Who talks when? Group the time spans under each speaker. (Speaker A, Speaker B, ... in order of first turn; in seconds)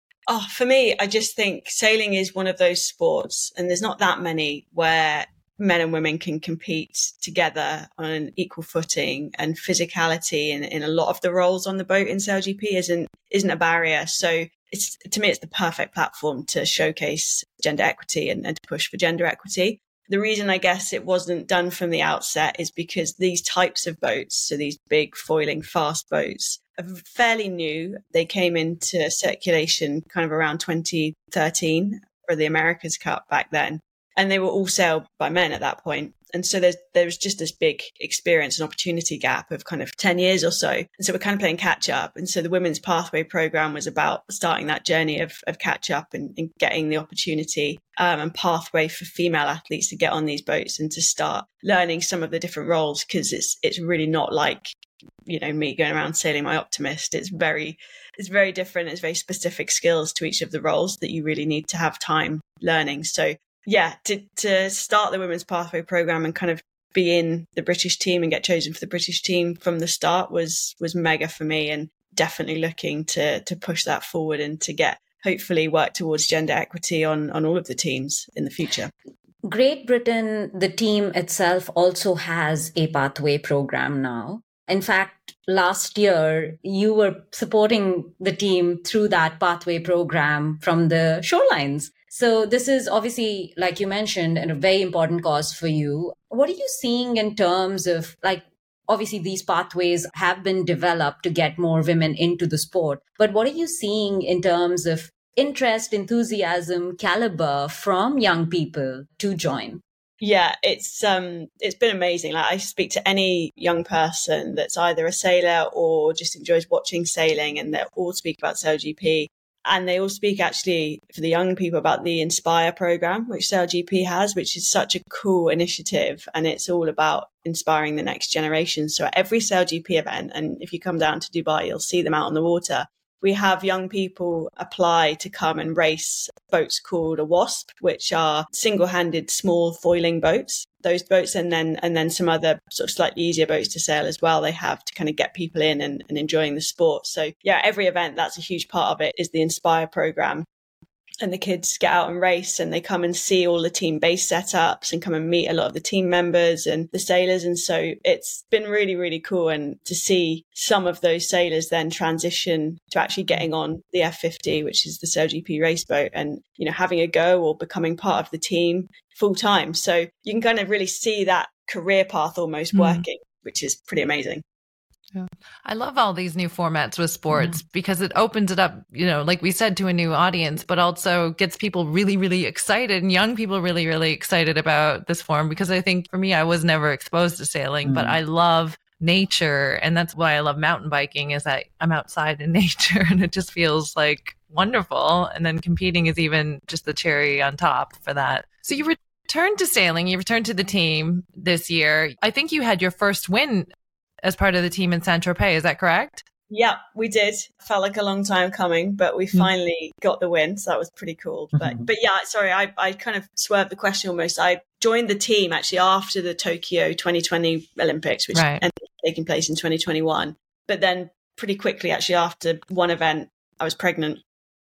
Speaker A: 0.3-54.7, 55.2-78.9, 110.2-150.4, 151.2-174.4, 206.5-224.2
Speaker B: 79.4-109.8, 187.8-188.2, 211.6-211.8
Speaker C: 172.7-173.0, 175.1-203.7, 204.2-206.2, 218.3-218.6